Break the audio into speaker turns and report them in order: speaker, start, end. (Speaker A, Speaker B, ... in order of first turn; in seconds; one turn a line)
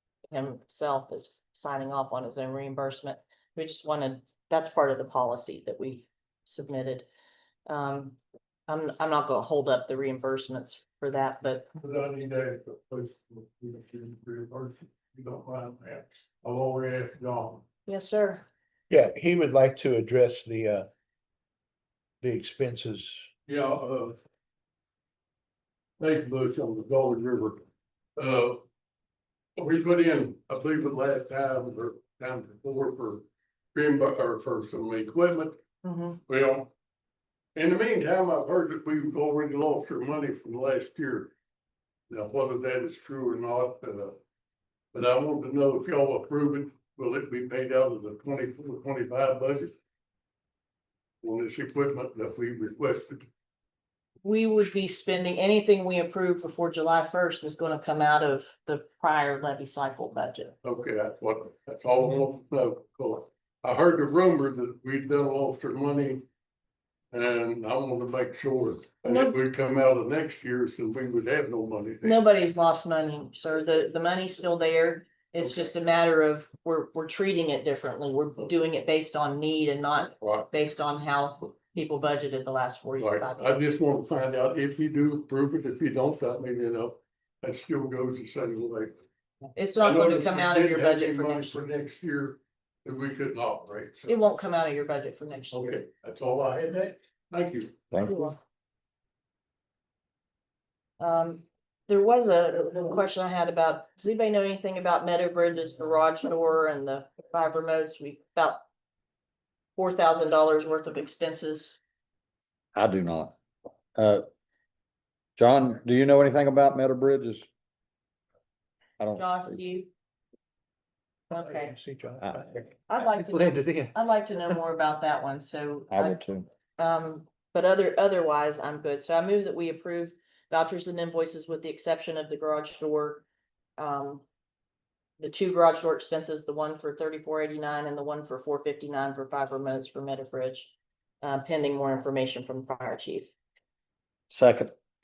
Speaker A: 0.3-7.1
Speaker A: 7.7-11.7
Speaker B: 11.8-17.6
Speaker A: 17.9-18.4
Speaker C: 18.9-20.9
Speaker C: 22.2-23.3
Speaker B: 23.5-24.2
Speaker B: 26.0-27.6
Speaker B: 28.2-28.6
Speaker B: 29.6-35.6
Speaker A: 35.8-36.2
Speaker B: 36.3-36.7
Speaker B: 37.6-41.3
Speaker B: 42.1-44.2
Speaker B: 44.9-49.8
Speaker B: 51.2-53.3
Speaker A: 54.2-60.5
Speaker B: 60.6-66.3
Speaker B: 67.1-72.2
Speaker A: 69.0-69.4
Speaker A: 72.0-83.5
Speaker B: 80.2-80.5
Speaker B: 83.0-89.0
Speaker A: 89.5-91.6
Speaker B: 89.8-94.2
Speaker A: 94.1-95.8
Speaker B: 95.5-97.8
Speaker D: 97.9-98.3
Speaker A: 98.0-98.4
Speaker A: 101.0-108.6
Speaker A: 109.8-111.8
Speaker D: 112.8-113.3
Speaker D: 114.0-114.2
Speaker D: 115.4-117.5
Speaker D: 119.0-119.6
Speaker A: 119.2-119.9
Speaker A: 121.3-121.7
Speaker C: 121.4-124.0
Speaker A: 122.9-126.2
Speaker D: 125.9-126.5
Speaker A: 126.8-133.2
Speaker A: 133.8-134.2
Speaker A: 135.2-143.3
Speaker D: 144.3-144.7